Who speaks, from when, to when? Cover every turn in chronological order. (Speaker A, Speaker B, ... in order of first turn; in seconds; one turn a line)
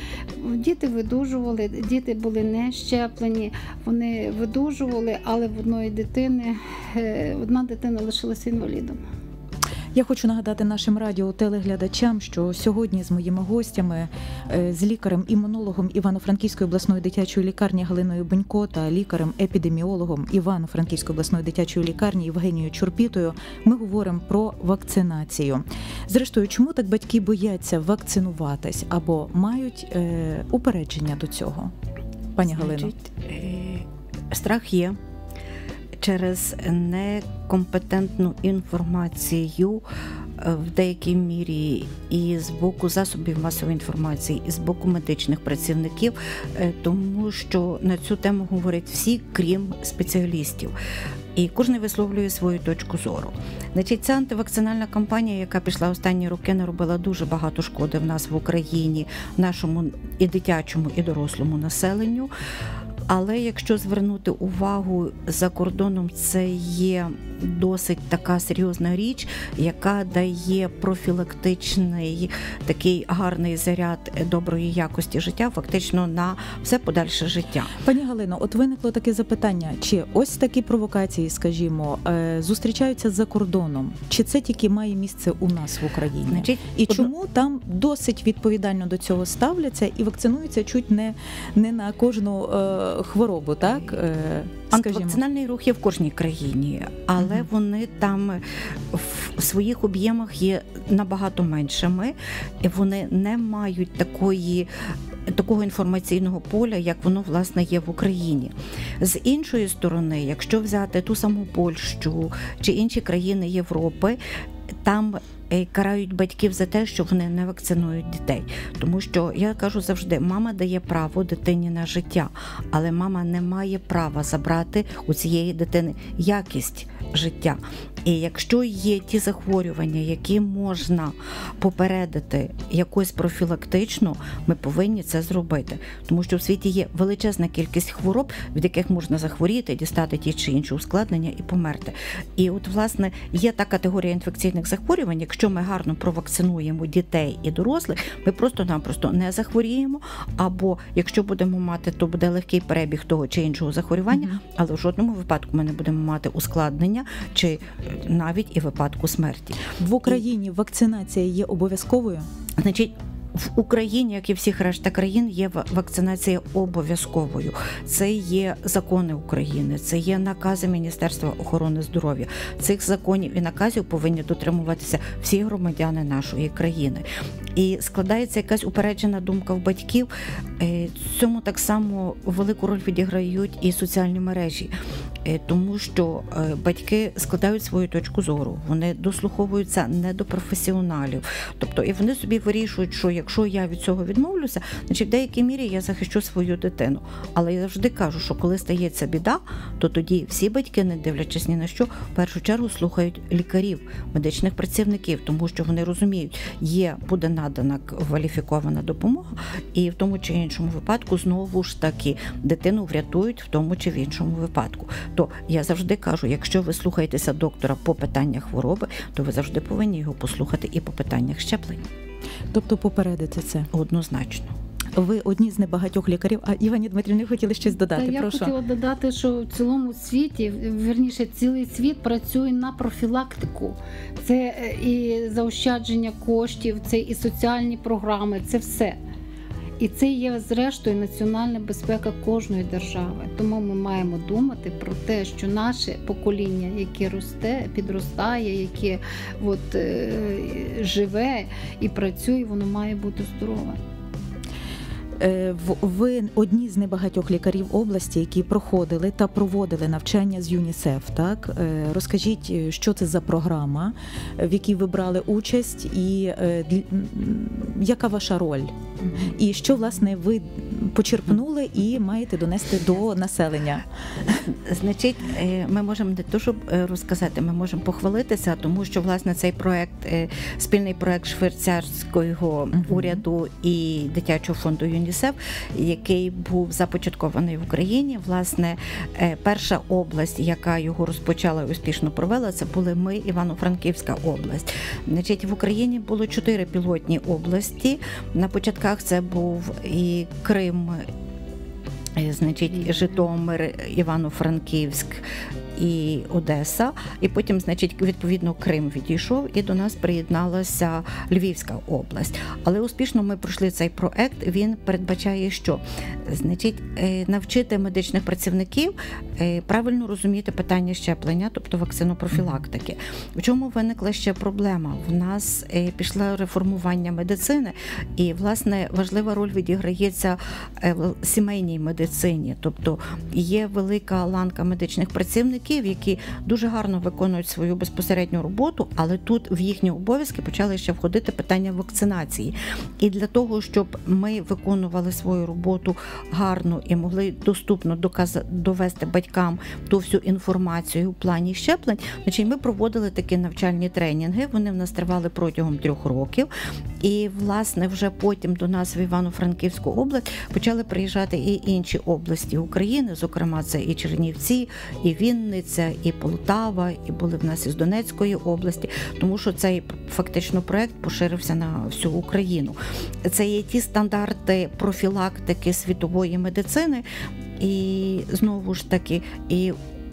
Speaker A: 0.3-9.0
Speaker B: 9.9-31.7
Speaker B: 32.4-33.0
Speaker C: 32.5-35.0
Speaker C: 36.0-39.8
Speaker C: 40.4-50.7
Speaker C: 51.4-62.3
Speaker C: 63.1-77.8
Speaker B: 77.8-95.2
Speaker C: 86.3-87.1
Speaker C: 94.7-104.7
Speaker B: 97.2-97.5
Speaker C: 105.3-114.2
Speaker C: 114.8-160.2
Speaker B: 159.8-162.3
Speaker C: 162.6-184.7
Speaker C: 185.2-221.9
Speaker B: 222.5-223.7
Speaker C: 223.7-224.5
Speaker B: 224.9-228.5
Speaker A: 227.8-239.0
Speaker A: 239.8-253.8
Speaker B: 255.2-274.4
Speaker C: 274.5-301.1
Speaker B: 282.8-283.2
Speaker C: 302.2-356.5
Speaker B: 322.4-322.6
Speaker C: 357.0-377.1
Speaker C: 377.6-379.8